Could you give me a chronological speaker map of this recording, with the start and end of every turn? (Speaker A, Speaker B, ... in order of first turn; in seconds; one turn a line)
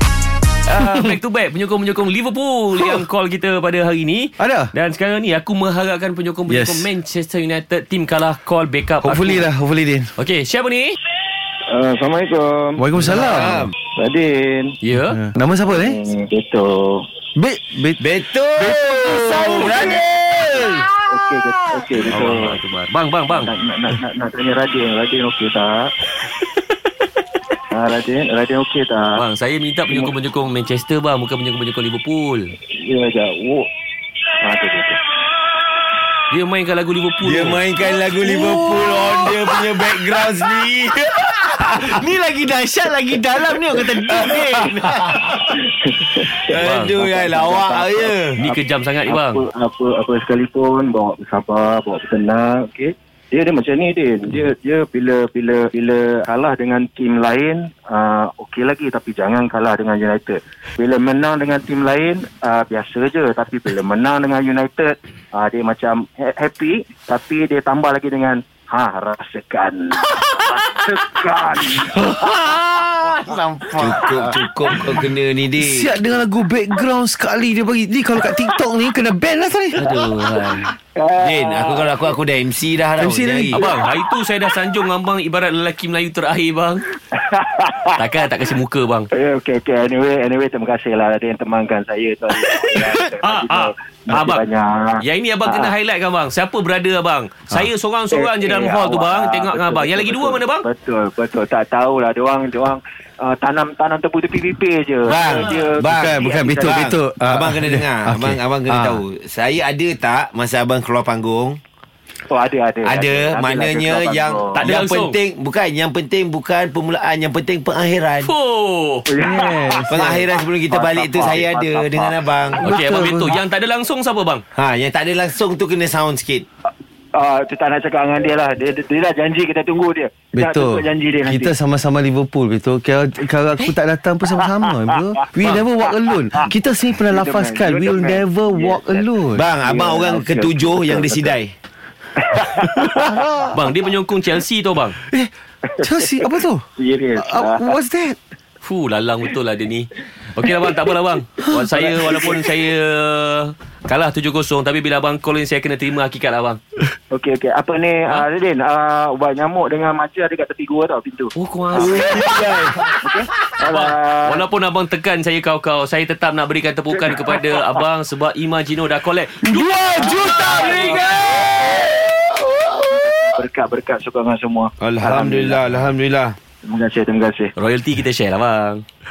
Speaker A: 0.7-9.4
Speaker B: 0.8-1.1
Speaker B: 4.4-4.7
Speaker B: 6.5-6.9
Speaker B: 9.0-10.1
Speaker A: 10.2-11.0
Speaker C: 11.7-12.8
Speaker B: 12.8-13.7
Speaker D: 13.1-13.7
Speaker C: 13.9-14.8
Speaker A: 14.8-15.2
Speaker B: 15.1-16.0
Speaker C: 15.7-17.1
Speaker B: 17.4-18.0
Speaker D: 18.0-20.9
Speaker B: 18.9-19.8
Speaker C: 21.1-22.6
Speaker A: 22.0-23.5
Speaker C: 23.3-25.9
Speaker C: 27.7-29.2
Speaker A: 29.1-32.5
Speaker C: 32.7-33.7
Speaker C: 34.4-35.0
Speaker A: 36.3-37.6
Speaker D: 37.2-42.0
Speaker B: 37.9-40.0
Speaker B: 41.4-45.5
Speaker D: 43.7-45.3
Speaker C: 44.4-72.0
Speaker D: 46.5-48.4
Speaker A: 46.6-46.9
Speaker A: 48.4-49.4
Speaker B: 71.8-74.4
Speaker D: 73.8-75.9
Speaker B: 75.6-79.9
Speaker A: 79.8-80.7
Speaker C: 80.9-82.0
Speaker D: 81.2-83.6
Speaker B: 83.0-83.6
Speaker A: 83.5-86.9
Speaker C: 83.6-83.9
Speaker C: 87.1-88.0
Speaker A: 88.0-89.1
Speaker C: 89.1-95.7
Speaker A: 92.4-94.4
Speaker A: 95.0-100.6
Speaker C: 98.1-106.9
Speaker D: 105.1-111.6
Speaker B: 105.6-109.0
Speaker C: 112.3-114.6
Speaker D: 112.8-118.3
Speaker A: 114.5-115.2
Speaker A: 118.2-119.1
Speaker C: 119.1-122.2
Speaker B: 119.2-120.3
Speaker D: 119.9-122.7
Speaker B: 122.6-123.4
Speaker A: 122.6-124.4
Speaker D: 124.5-126.5
Speaker C: 127.1-131.6
Speaker B: 130.3-139.4
Speaker C: 137.1-139.1
Speaker D: 139.3-141.5
Speaker C: 139.6-141.4
Speaker C: 142.2-143.5
Speaker B: 142.8-143.3
Speaker A: 143.5-145.0
Speaker C: 145.7-147.8
Speaker B: 145.8-148.2
Speaker A: 148.6-156.6
Speaker C: 151.7-152.4
Speaker C: 157.1-164.4
Speaker A: 161.3-162.3
Speaker B: 162.0-162.6
Speaker A: 163.7-171.1
Speaker B: 169.4-171.9
Speaker C: 169.9-171.5
Speaker C: 173.2-175.6
Speaker D: 174.8-176.4
Speaker C: 176.7-177.5
Speaker A: 177.6-178.8